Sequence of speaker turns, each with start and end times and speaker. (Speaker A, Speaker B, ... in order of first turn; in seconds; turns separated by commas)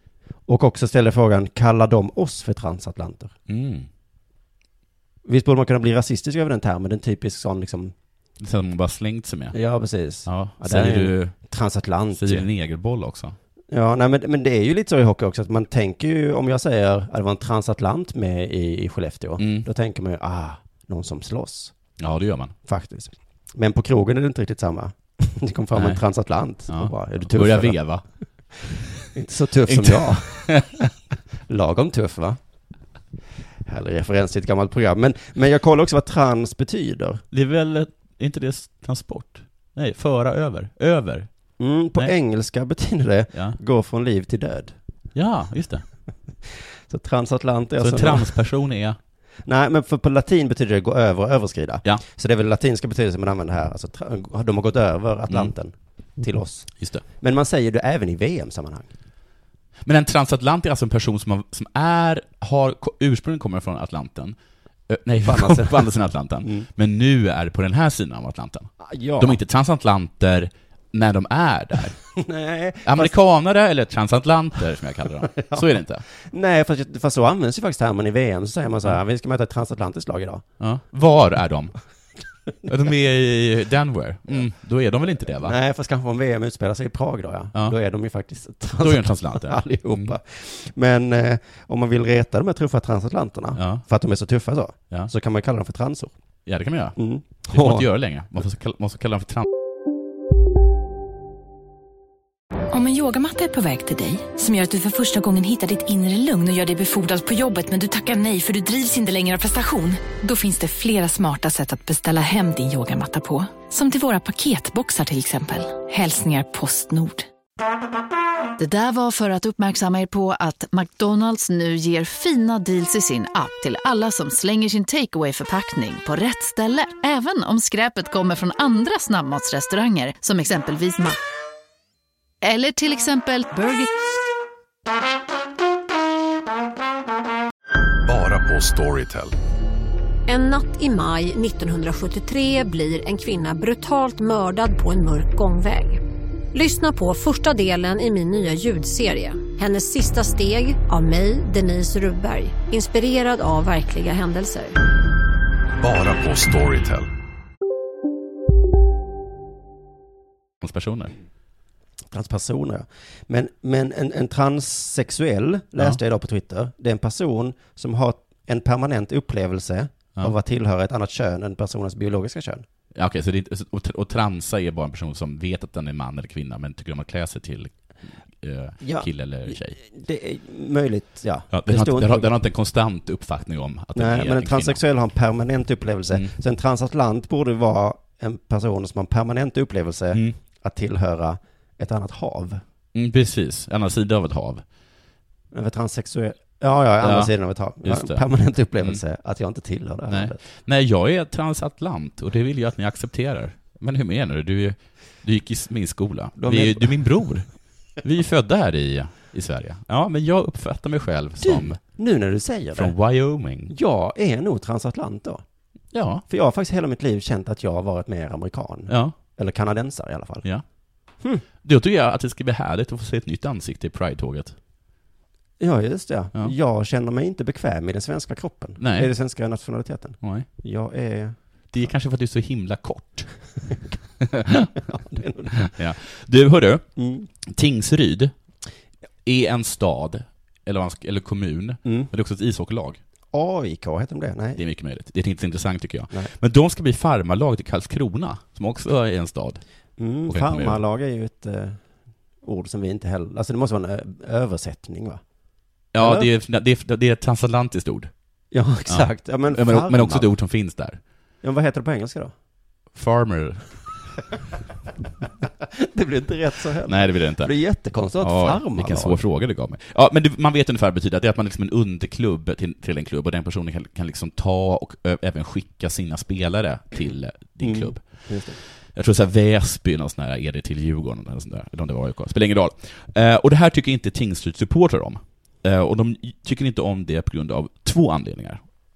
Speaker A: 0.5-3.3, Speaker B: 3.5-3.9, Speaker A: 5.3-7.9, Speaker B: 8.4-9.6, Speaker A: 9.5-12.5, Speaker B: 10.3-11.3, Speaker B: 12.2-13.3, Speaker A: 13.7-21.8, Speaker B: 19.4-19.7, Speaker B: 22.0-22.6, Speaker A: 22.7-27.8, Speaker B: 25.8-26.0, Speaker B: 26.7-28.0, Speaker A: 29.1-30.6, Speaker B: 29.7-30.7, Speaker A: 31.5-32.4, Speaker A: 33.7-37.2, Speaker B: 37.3-41.3, Speaker A: 41.6-44.8, Speaker B: 43.3-43.6, Speaker B: 45.1-45.9, Speaker A: 46.9-48.4, Speaker B: 47.8-49.0, Speaker A: 49.5-58.9, Speaker B: 56.8-57.0, Speaker B: 59.9-64.4, Speaker B: 64.9-72.0, Speaker A: 65.2-65.9, Speaker A: 66.4-66.7, Speaker A: 68.8-69.4, Speaker A: 72.2-73.1, Speaker B: 72.8-76.0, Speaker A: 75.4-75.7, Speaker A: 76.2-80.4, Speaker B: 80.6-81.7, Speaker B: 82.7-85.6, Speaker A: 85.4-96.1, Speaker B: 88.8-90.2, Speaker B: 93.5-93.8, Speaker B: 96.5-97.0, Speaker A: 97.0-97.9, Speaker B: 97.5-99.5, Speaker C: 102.7-117.3, Speaker D: 118.6-131.2, Speaker D: 132.4-133.9, Speaker E: 138.1-139.3, Speaker F: 140.3-146.0, Speaker F: 146.5-154.8, Speaker E: 155.8-157.1, Speaker B: 160.6-161.1, Speaker A: 162.1-172.7, Speaker B: 172.9-177.7, Speaker B: 178.3-179.8, Speaker A: 178.8-182.3, Speaker B: 181.5-184.8, Speaker A: 183.9-192.6, Speaker B: 192.9-194.6, Speaker A: 195.5-200.4, Speaker B: 197.0-198.2, Speaker B: 200.1-207.5, Speaker A: 206.4-207.2, Speaker B: 208.0-211.8, Speaker A: 211.4-212.9, Speaker B: 212.8-213.7, Speaker A: 213.7-215.4, Speaker B: 215.9-216.2, Speaker A: 216.3-220.5, Speaker B: 218.9-219.2, Speaker B: 221.6-224.6, Speaker A: 225.6-231.4, Speaker B: 228.8-229.1, Speaker B: 230.2-230.5, Speaker B: 231.7-233.3, Speaker B: 234.2-234.7, Speaker A: 234.8-235.7, Speaker B: 235.5-236.9, Speaker A: 237.0-237.3, Speaker B: 237.4-238.3, Speaker B: 239.2-243.0, Speaker A: 241.8-242.1, Speaker A: 243.3-244.6, Speaker B: 244.6-249.6, Speaker A: 250.0-251.8, Speaker B: 250.3-250.8, Speaker A: 252.4-255.2, Speaker B: 255.9-258.1, Speaker A: 256.0-256.3, Speaker A: 258.5-260.3, Speaker B: 258.9-261.0, Speaker A: 261.4-262.3, Speaker B: 262.9-263.7, Speaker A: 265.8-269.2, Speaker B: 266.9-267.5, Speaker B: 268.2-278.1, Speaker A: 277.6-278.6, Speaker B: 278.9-288.6